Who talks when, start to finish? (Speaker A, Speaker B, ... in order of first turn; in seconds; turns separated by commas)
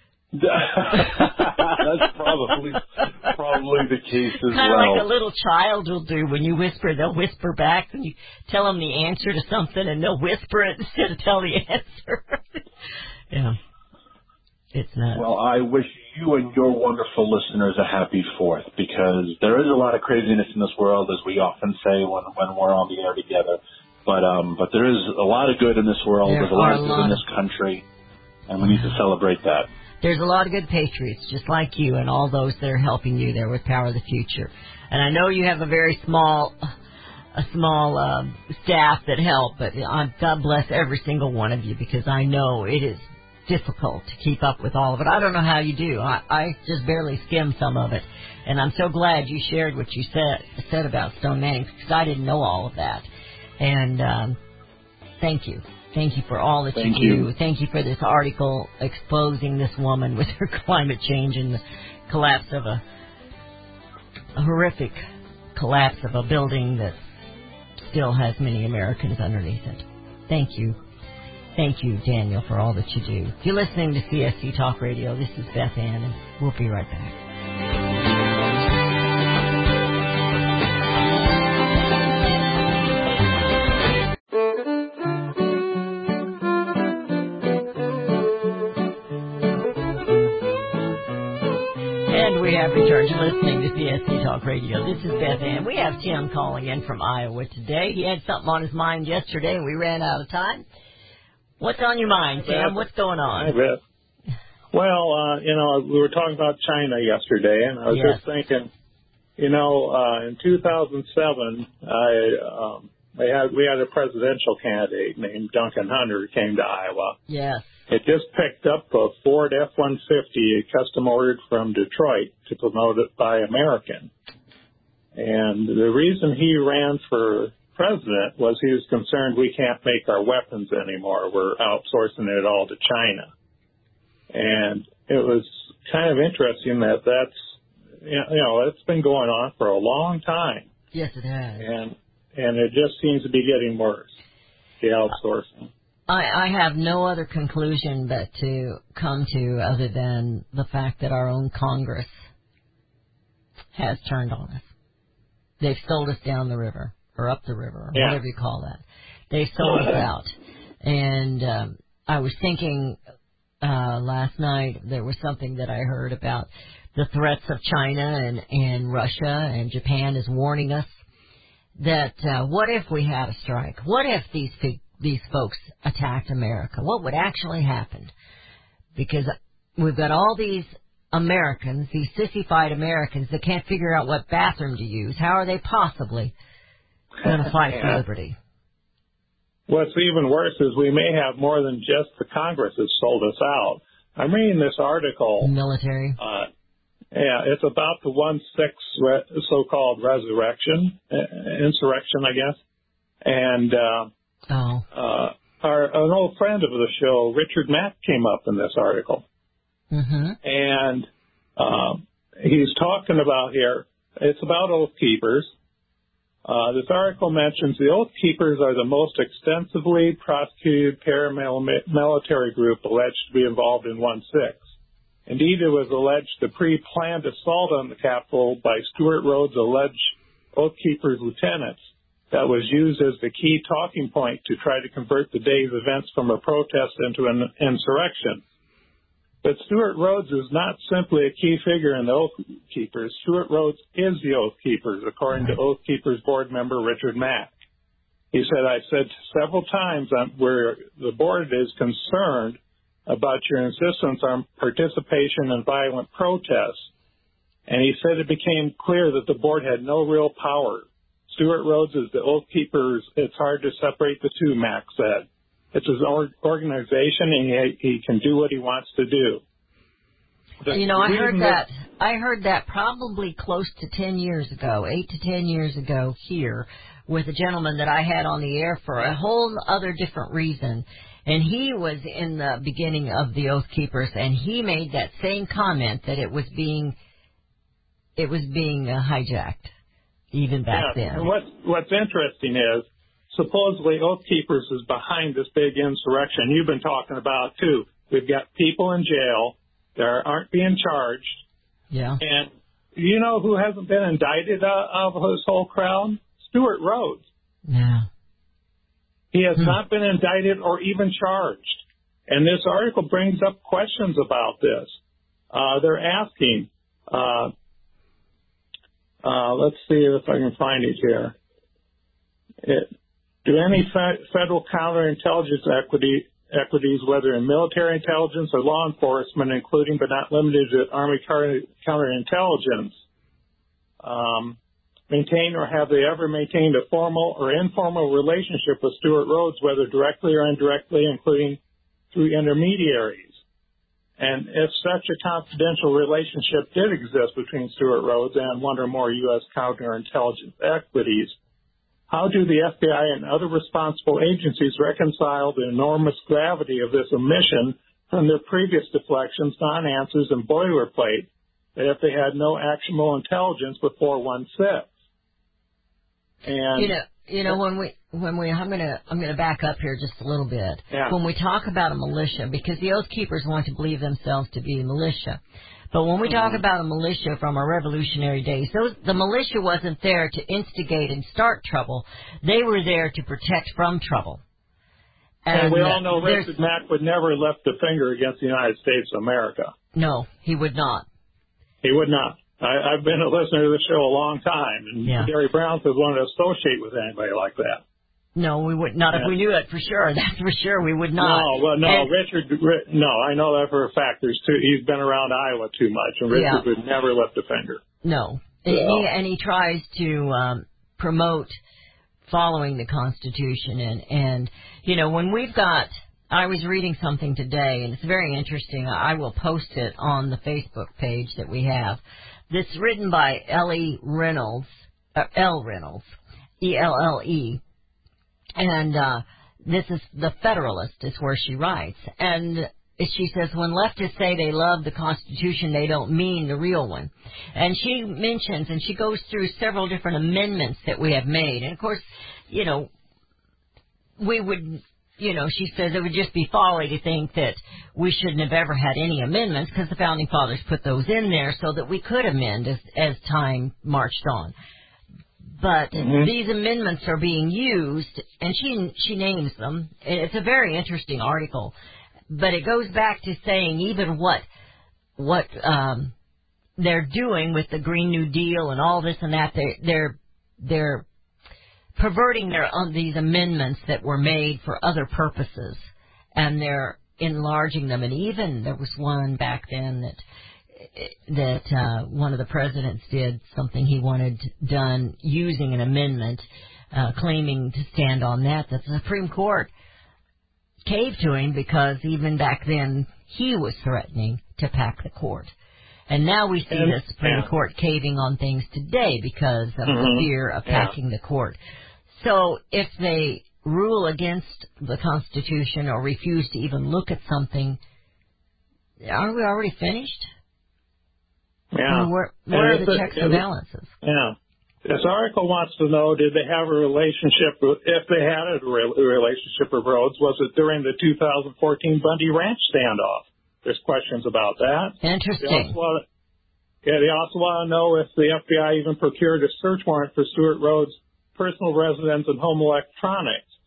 Speaker A: 0.3-5.1, Speaker B: 1.0-1.4, Speaker B: 4.5-12.6, Speaker B: 13.3-13.6, Speaker B: 14.7-15.2, Speaker A: 15.2-27.8, Speaker B: 26.3-27.2, Speaker A: 28.5-29.7, Speaker B: 28.6-29.0, Speaker B: 30.0-36.6, Speaker B: 37.4-53.1, Speaker B: 53.6-54.4, Speaker B: 55.2-62.8, Speaker A: 56.8-57.3, Speaker B: 64.4-65.0, Speaker B: 65.5-67.0, Speaker B: 67.8-70.8, Speaker B: 71.6-77.2, Speaker B: 92.1-100.6, Speaker B: 101.6-103.5, Speaker C: 102.4-102.8, Speaker C: 103.3-103.8, Speaker C: 104.7-108.7, Speaker B: 107.9-108.2, Speaker C: 109.4-117.2, Speaker B: 117.3-117.8, Speaker C: 117.9-124.1, Speaker C: 125.2-133.3, Speaker C: 134.3-137.4, Speaker C: 138.0-140.7, Speaker B: 140.9-141.7, Speaker C: 141.6-144.1, Speaker C: 144.8-145.7, Speaker B: 146.1-152.2, Speaker B: 153.8-154.7, Speaker B: 155.6-160.3, Speaker C: 157.9-158.2, Speaker B: 160.8-163.0, Speaker B: 163.6-171.0, Speaker B: 171.8-178.1, Speaker B: 178.9-186.3, Speaker B: 187.2-188.4, Speaker C: 187.3-188.0, Speaker C: 189.7-195.5, Speaker B: 195.4-196.2, Speaker C: 196.2-196.5, Speaker C: 197.1-202.6, Speaker C: 203.2-204.1, Speaker B: 204.5-204.8, Speaker C: 204.9-209.2, Speaker B: 209.9-210.4, Speaker C: 210.4-215.5, Speaker C: 216.5-224.6, Speaker C: 225.3-230.0, Speaker C: 230.5-231.8, Speaker C: 232.3-238.4, Speaker C: 239.4-247.5, Speaker C: 248.3-256.9, Speaker C: 257.7-269.4, Speaker C: 270.6-271.6, Speaker B: 270.7-287.0, Speaker B: 288.2-289.7, Speaker B: 290.3-291.3, Speaker C: 290.7-301.4, Speaker B: 301.9-302.2, Speaker C: 302.2-307.3, Speaker B: 307.7-308.1, Speaker C: 309.3-314.9, Speaker B: 309.6-309.8, Speaker C: 315.5-317.5, Speaker C: 319.2-321.4, Speaker C: 322.6-322.9, Speaker C: 323.4-332.9, Speaker C: 334.0-334.6, Speaker C: 335.1-341.6, Speaker C: 342.1-343.3, Speaker C: 344.2-351.4, Speaker C: 352.1-364.9, Speaker C: 366.4-367.0, Speaker B: 366.8-375.4, Speaker B: 375.9-384.4, Speaker C: 376.2-376.6, Speaker B: 385.5-386.6, Speaker C: 385.5-389.7, Speaker B: 389.9-391.1, Speaker C: 391.8-397.8, Speaker B: 395.0-395.3, Speaker B: 398.4-402.1, Speaker C: 401.2-407.8, Speaker B: 406.3-406.7, Speaker B: 408.0-411.6, Speaker C: 408.7-409.1, Speaker B: 412.3-427.6, Speaker B: 428.6-442.9, Speaker B: 444.2-454.5, Speaker B: 455.6-461.7, Speaker C: 455.9-456.3, Speaker B: 462.3-464.5, Speaker B: 465.2-466.1, Speaker B: 466.8-471.1, Speaker B: 472.0-480.2, Speaker B: 480.8-489.7, Speaker B: 490.9-495.5, Speaker B: 496.1-501.6, Speaker C: 496.7-497.5, Speaker C: 499.9-500.9, Speaker B: 502.1-507.8, Speaker B: 509.0-510.3, Speaker C: 511.7-513.4, Speaker B: 511.9-513.9, Speaker C: 514.0-526.0, Speaker B: 525.0-525.8, Speaker C: 526.8-533.5